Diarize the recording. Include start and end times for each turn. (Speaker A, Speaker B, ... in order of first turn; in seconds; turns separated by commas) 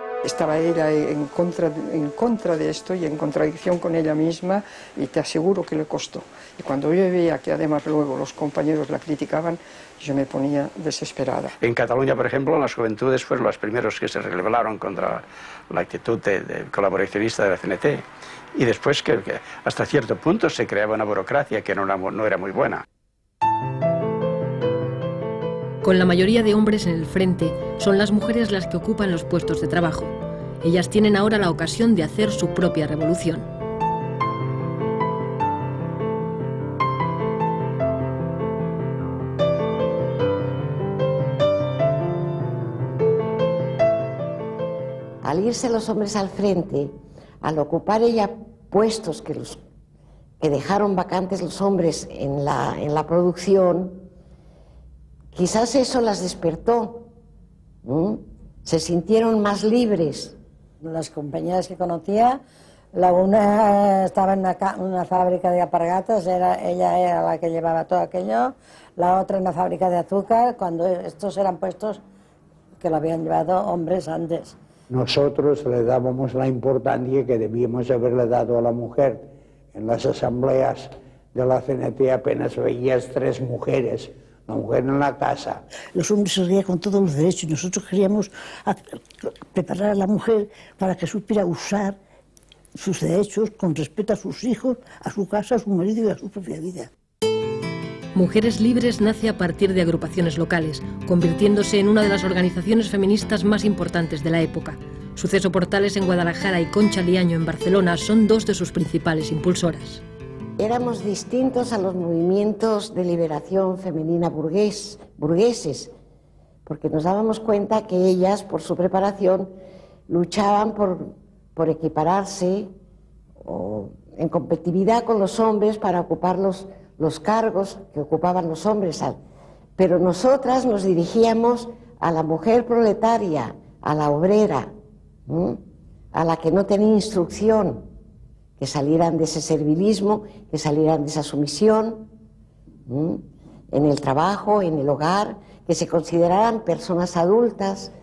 Speaker A: 0.2-11.5, Speaker B: 11.6-22.8, Speaker C: 25.8-33.5, Speaker D: 45.2-49.6, Speaker D: 50.4-54.0, Speaker D: 55.3-57.1, Speaker D: 57.8-60.4, Speaker E: 60.8-62.4, Speaker E: 62.9-72.0, Speaker E: 72.8-74.6, Speaker F: 74.9-85.6, Speaker G: 85.9-92.0, Speaker G: 92.8-96.9, Speaker C: 98.1-110.0, Speaker D: 110.6-115.9, Speaker D: 116.7-119.5, Speaker D: 120.1-122.7, Speaker D: 123.4-129.2, Speaker D: 129.8-134.7, Speaker D: 135.3-135.6, Speaker D: 136.1-137.8, Speaker D: 138.6-142.1, Speaker D: 142.9-147.9